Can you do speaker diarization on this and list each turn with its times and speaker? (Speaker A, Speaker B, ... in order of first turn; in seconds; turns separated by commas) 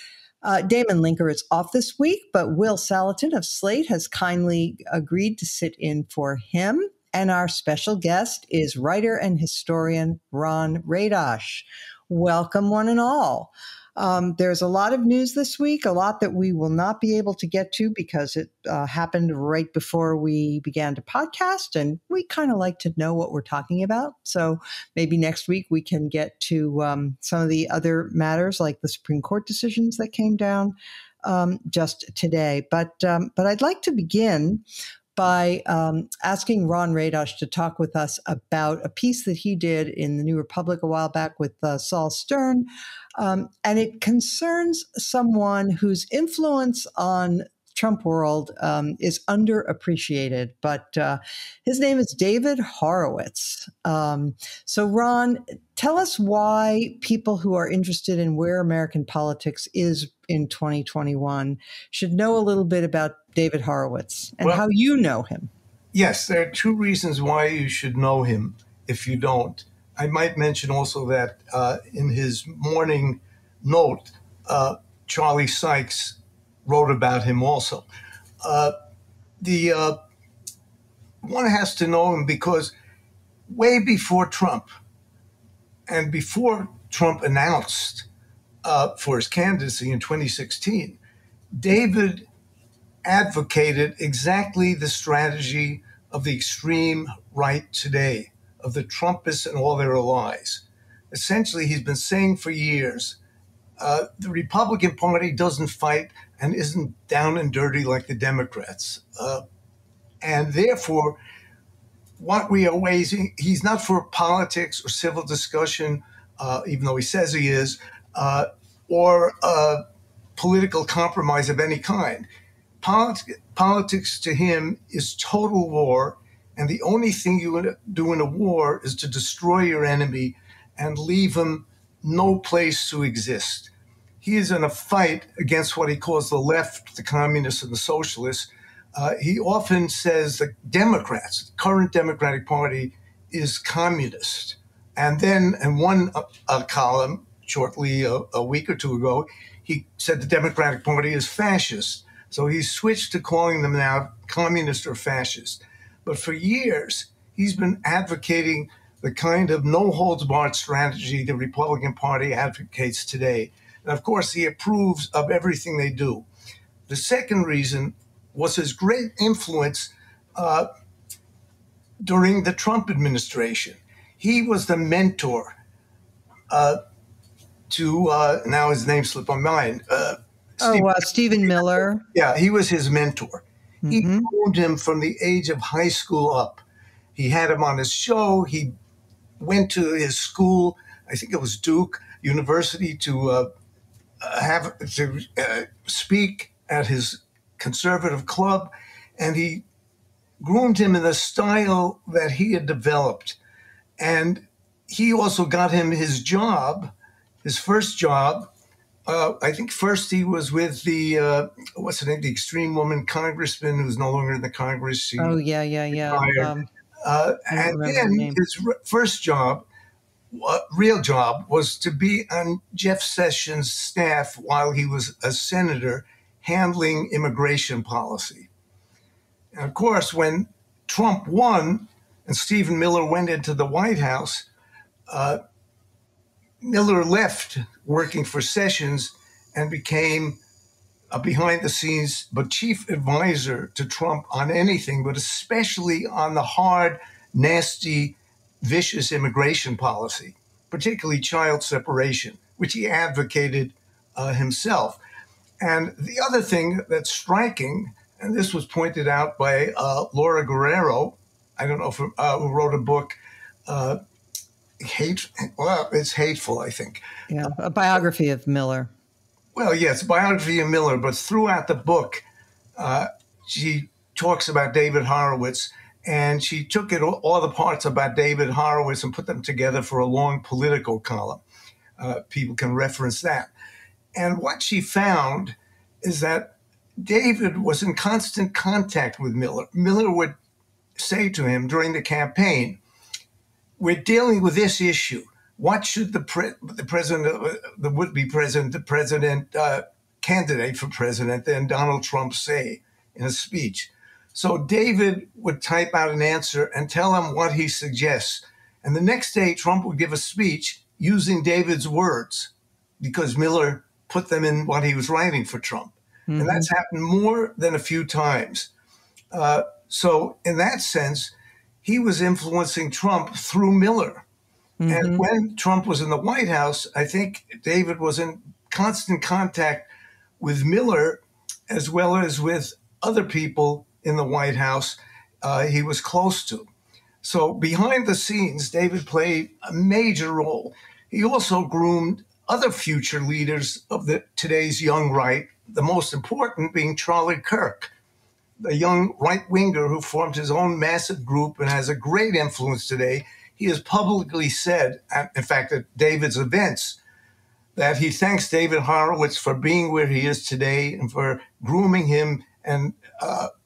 Speaker A: 0.4-34.6, Speaker A: 35.1-42.6, Speaker A: 43.2-65.5, Speaker B: 65.9-77.9, Speaker B: 78.4-78.7, Speaker B: 79.4-80.0, Speaker B: 81.2-82.7, Speaker B: 83.5-84.7, Speaker B: 85.9-88.0, Speaker B: 88.6-91.0, Speaker B: 91.6-92.3, Speaker B: 93.0-103.2, Speaker B: 103.8-109.4, Speaker B: 110.2-111.2, Speaker B: 112.2-119.8, Speaker B: 120.3-122.3, Speaker B: 122.8-166.2, Speaker B: 166.9-170.7, Speaker B: 172.0-175.6, Speaker B: 176.5-176.8, Speaker B: 177.7-186.6, Speaker A: 180.6-182.0, Speaker A: 183.8-184.3, Speaker B: 187.2-188.7, Speaker B: 189.4-193.5, Speaker B: 194.2-199.6, Speaker B: 200.4-203.4, Speaker B: 204.0-206.9, Speaker B: 207.4-208.5, Speaker B: 209.1-215.4, Speaker A: 215.2-216.7, Speaker B: 216.0-219.6, Speaker A: 217.5-218.4, Speaker B: 220.3-228.5, Speaker B: 229.5-234.5, Speaker B: 235.1-235.4, Speaker B: 236.6-240.4, Speaker B: 241.1-255.0, Speaker B: 255.6-263.1, Speaker B: 263.7-264.0, Speaker B: 264.8-267.1, Speaker A: 267.3-268.9, Speaker B: 269.5-272.2, Speaker B: 272.8-281.4, Speaker B: 282.0-283.5, Speaker B: 284.1-290.3, Speaker B: 291.0-292.8, Speaker B: 293.8-318.7, Speaker A: 316.3-316.7, Speaker B: 319.3-324.2, Speaker A: 324.8-325.2, Speaker B: 324.9-329.9, Speaker B: 330.4-336.7, Speaker B: 337.2-347.9, Speaker B: 348.6-357.0, Speaker B: 357.7-363.5